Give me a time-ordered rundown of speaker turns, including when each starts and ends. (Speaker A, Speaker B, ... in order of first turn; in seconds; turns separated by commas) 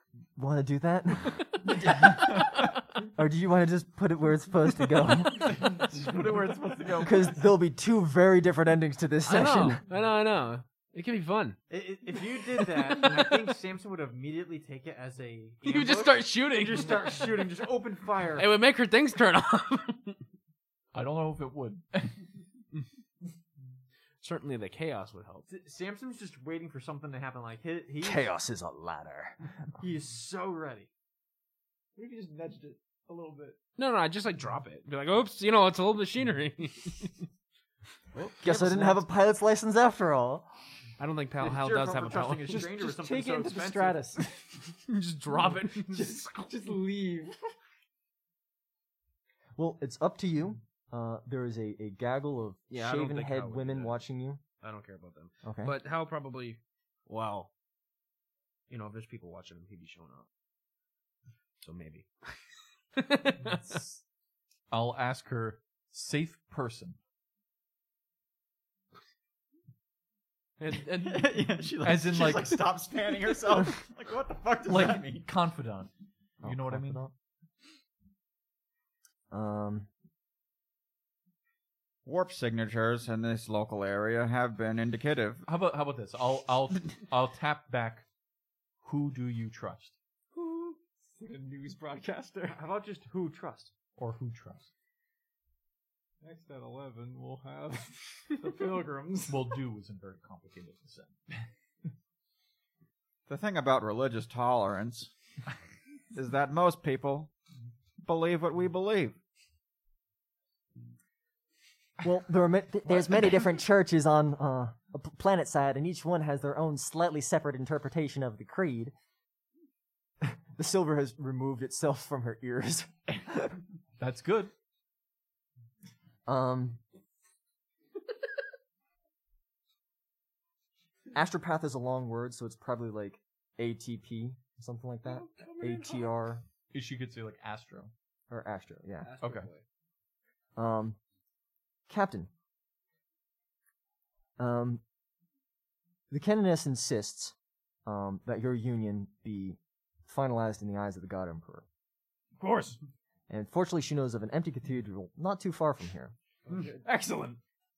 Speaker A: 0.4-5.7, Speaker B: 5.9-6.9, Speaker A: 7.0-9.8, Speaker C: 9.2-11.6, Speaker D: 11.7-18.5, Speaker C: 12.6-13.5, Speaker C: 15.6-17.3, Speaker C: 18.3-20.2, Speaker B: 20.9-22.2, Speaker C: 24.2-25.5, Speaker D: 25.5-28.3, Speaker A: 28.0-29.4, Speaker D: 29.8-30.9, Speaker E: 32.0-33.6, Speaker C: 33.8-37.2, Speaker A: 38.4-40.5, Speaker C: 38.5-38.9, Speaker C: 41.0-42.7, Speaker D: 41.4-44.1, Speaker E: 42.5-44.5, Speaker C: 44.7-46.5, Speaker E: 45.9-47.5, Speaker A: 49.6-54.4, Speaker C: 52.7-54.0, Speaker C: 54.6-57.5, Speaker A: 55.4-55.7, Speaker C: 58.7-60.3, Speaker C: 61.6-62.3, Speaker C: 63.0-64.0, Speaker B: 63.5-63.9, Speaker B: 64.7-67.0, Speaker C: 70.6-71.5, Speaker F: 71.0-75.3, Speaker B: 71.8-72.8, Speaker B: 74.7-75.9, Speaker B: 76.4-77.0, Speaker A: 76.4-77.1, Speaker A: 79.3-79.9, Speaker F: 82.0-85.5, Speaker B: 85.5-88.0, Speaker B: 88.8-90.0, Speaker E: 90.3-92.6, Speaker D: 92.5-93.7, Speaker B: 94.0-94.7, Speaker E: 96.2-99.5, Speaker B: 99.3-101.5, Speaker F: 103.3-105.1, Speaker F: 106.1-107.3, Speaker F: 108.0-109.2, Speaker A: 112.0-118.9, Speaker A: 120.2-123.5, Speaker B: 124.0-124.5, Speaker A: 126.3-126.8, Speaker A: 131.1-136.4, Speaker C: 135.1-136.2, Speaker B: 136.7-137.9, Speaker A: 138.3-139.1, Speaker C: 139.0-139.6, Speaker B: 139.2-139.5, Speaker A: 140.6-141.0, Speaker A: 141.9-142.3, Speaker A: 144.4-144.8, Speaker A: 146.1-147.3, Speaker A: 147.9-151.7, Speaker E: 152.4-152.8, Speaker A: 153.3-156.2, Speaker C: 156.5-156.8, Speaker E: 156.6-157.4